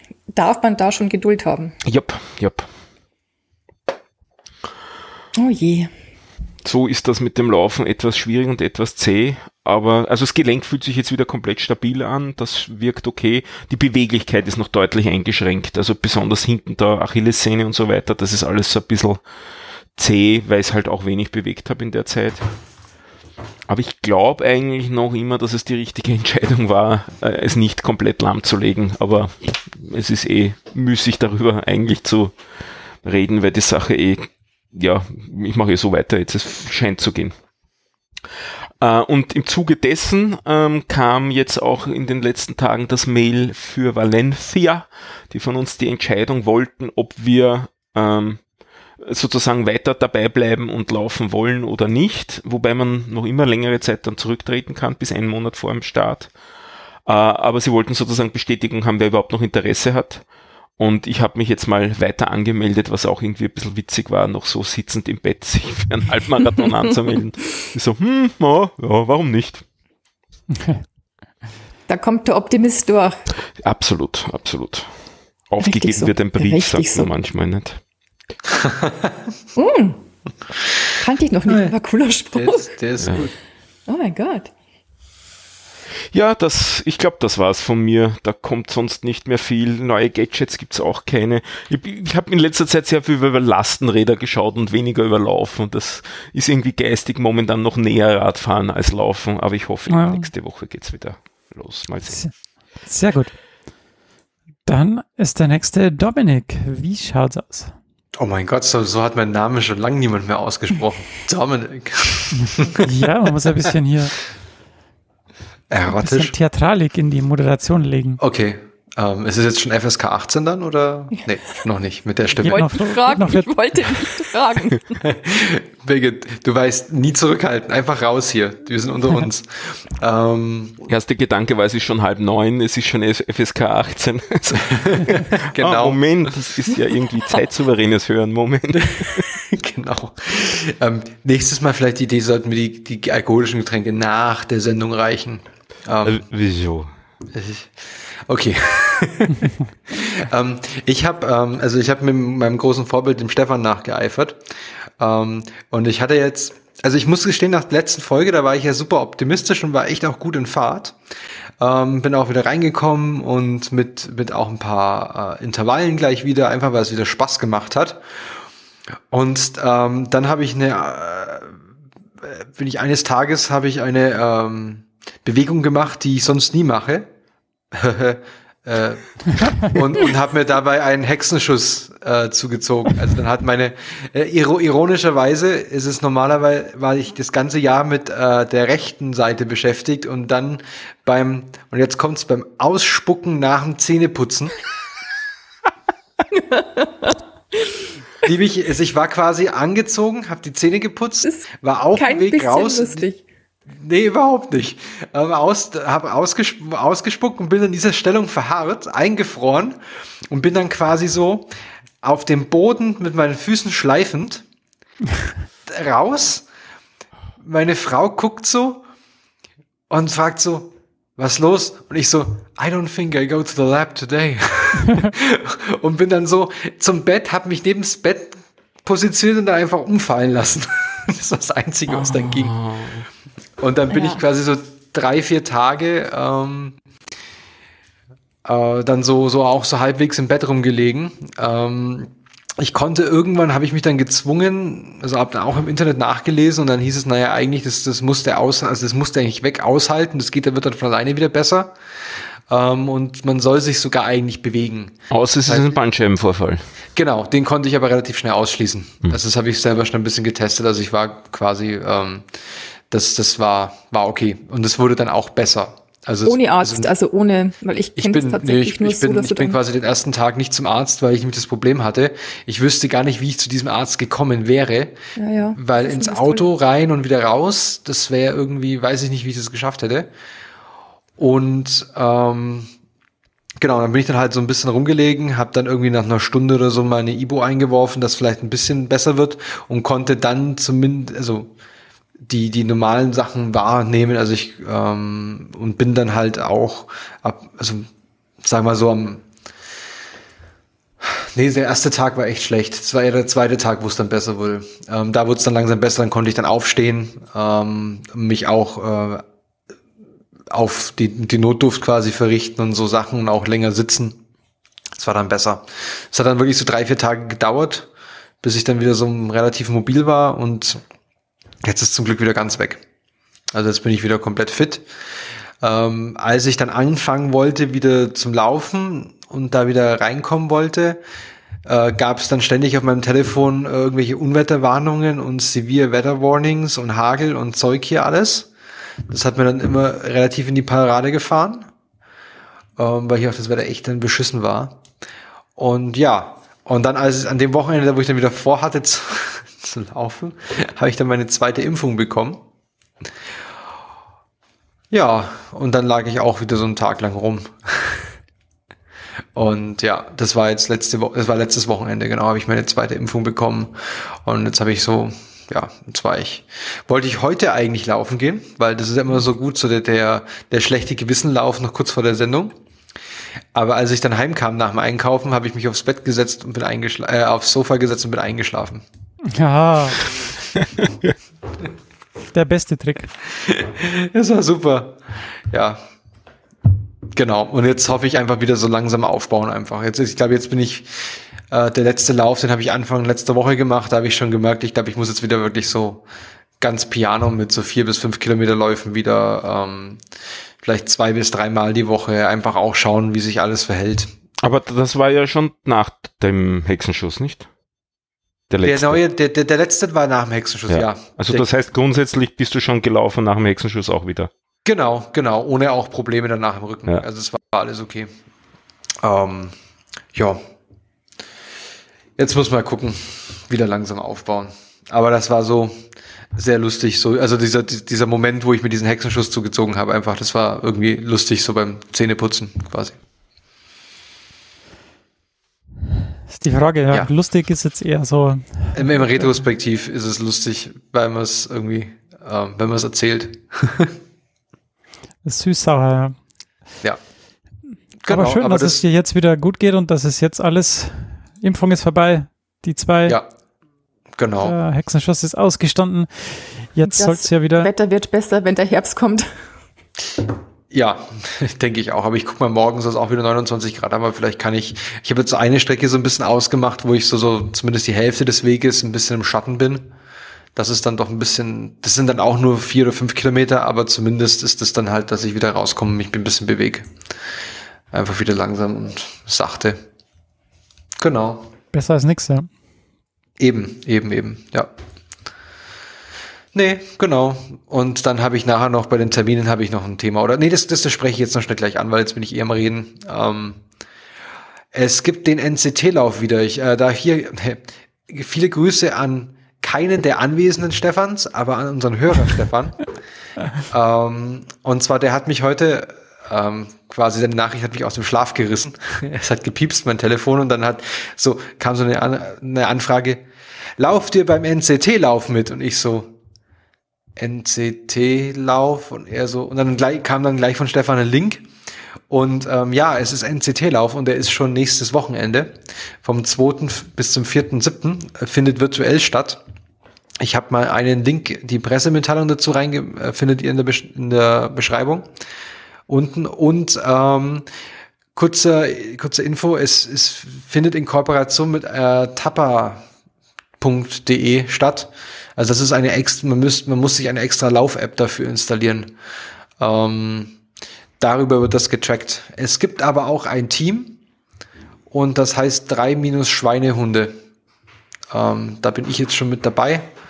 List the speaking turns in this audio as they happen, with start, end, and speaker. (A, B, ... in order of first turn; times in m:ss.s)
0:00.3-0:01.7 A
0:01.8-0:02.7 B
0:05.3-0:05.9 A
0:06.6-0:19.2 B
0:20.0-0:22.4 B
0:23.7-0:32.3 B
0:33.0-0:37.3 B
0:38.8-0:48.4 B
0:49.0-0:56.3 B
0:57.1-1:00.2 B
1:00.8-1:09.6 B
1:10.5-1:10.8 C
1:11.9-1:13.2 A
1:13.6-1:14.9 B
1:15.5-1:17.8 B
1:15.6-1:17.1 A
1:18.5-1:19.1 D
1:19.6-1:20.0 A
1:20.9-1:22.7 A
1:21.5-1:21.7 D
1:22.3-1:23.3 D
1:23.9-1:24.5 A
1:26.1-1:42.2 B
1:39.9-1:40.3 C
1:42.8-1:43.3 C
1:44.6-1:47.7 C
1:48.1-1:52.8 D
1:52.4-1:54.2 C
1:55.7-1:56.3 D
1:55.9-1:58.2 C
1:58.2-2:02.6 D
2:02.4-2:03.6 C
2:02.4-2:05.0 A
2:05.0-2:10.8 D
2:10.9-2:19.3 B
2:14.7-2:16.3 D
2:18.8-2:26.2 D
2:26.0-2:26.9 B
2:27.3-2:34.4 D
2:35.0-2:41.0 D
2:41.6-2:48.0 D
2:49.1-2:51.6 D
2:52.2-2:57.1 D
2:57.7-3:14.5 D
3:16.3-3:17.7 A
3:18.2-3:23.0 D
3:21.2-3:23.2 A
3:23.7-3:31.5 D
3:32.0-3:34.4 D
3:35.6-3:36.4 D
3:37.4-3:38.8 D
3:39.9-3:52.6 D
3:51.9-3:53.0 B
3:53.6-3:56.8 D
3:53.9-3:54.2 A
3:58.4-4:11.7 D
4:12.5-4:15.8 D
4:15.1-4:16.6 B
4:17.0-4:22.2 D
4:22.9-4:26.9 D
4:26.2-4:29.6 A
4:28.0-4:35.0 D
4:35.2-4:36.4 A
4:35.6-4:40.1 D
4:41.2-4:42.7 D
4:43.6-4:51.5 D
4:52.2-4:57.9 D
4:58.4-4:59.2 D
5:01.0-5:09.2 D
5:10.5-5:14.2 D
5:14.9-5:17.9 D
5:18.4-5:20.8 D
5:21.6-5:22.8 D
5:23.5-5:24.8 D
5:25.6-5:31.0 D
5:31.6-5:38.5 D
5:39.1-5:41.7 D
5:42.8-5:44.8 D
5:45.6-5:52.4 D
5:54.9-5:58.1 D
5:59.4-6:12.5 D
6:13.5-6:18.8 D
6:19.3-6:20.0 C
6:22.3-6:23.1 C
6:23.4-6:25.8 D
6:27.1-6:36.0 D
6:36.6-6:40.0 D
6:40.6-6:44.1 D
6:44.4-6:47.5 B
6:48.5-6:49.0 B
6:48.6-6:51.4 D
6:50.7-6:54.3 B
6:54.6-6:58.1 D
6:59.0-6:59.5 D
7:00.1-7:00.4 D
7:02.2-7:05.7 D
7:06.4-7:13.0 D
7:16.3-7:18.9 C
7:18.7-7:24.0 D
7:25.2-7:26.2 C
7:28.0-7:28.8 D
7:28.1-7:33.2 C
7:34.2-7:34.5 D
7:34.4-7:37.7 C
7:36.9-7:39.3 A
7:40.7-7:49.9 D
7:50.6-7:56.9 D
7:57.9-7:59.8 D
8:01.0-8:01.5 D
8:01.7-8:02.5 C
8:03.4-8:04.7 D
8:06.5-8:13.6 D
8:14.7-8:22.8 D
8:23.7-8:33.2 D
8:33.8-8:36.1 D
8:37.2-8:41.5 D
8:42.1-8:49.4 D
8:50.2-8:55.1 D
8:55.9-8:57.4 D
8:58.1-9:02.8 D
9:03.6-9:08.9 D
9:09.6-9:10.4 D
9:11.0-9:14.0 D
9:14.9-9:17.1 D
9:18.1-9:19.9 D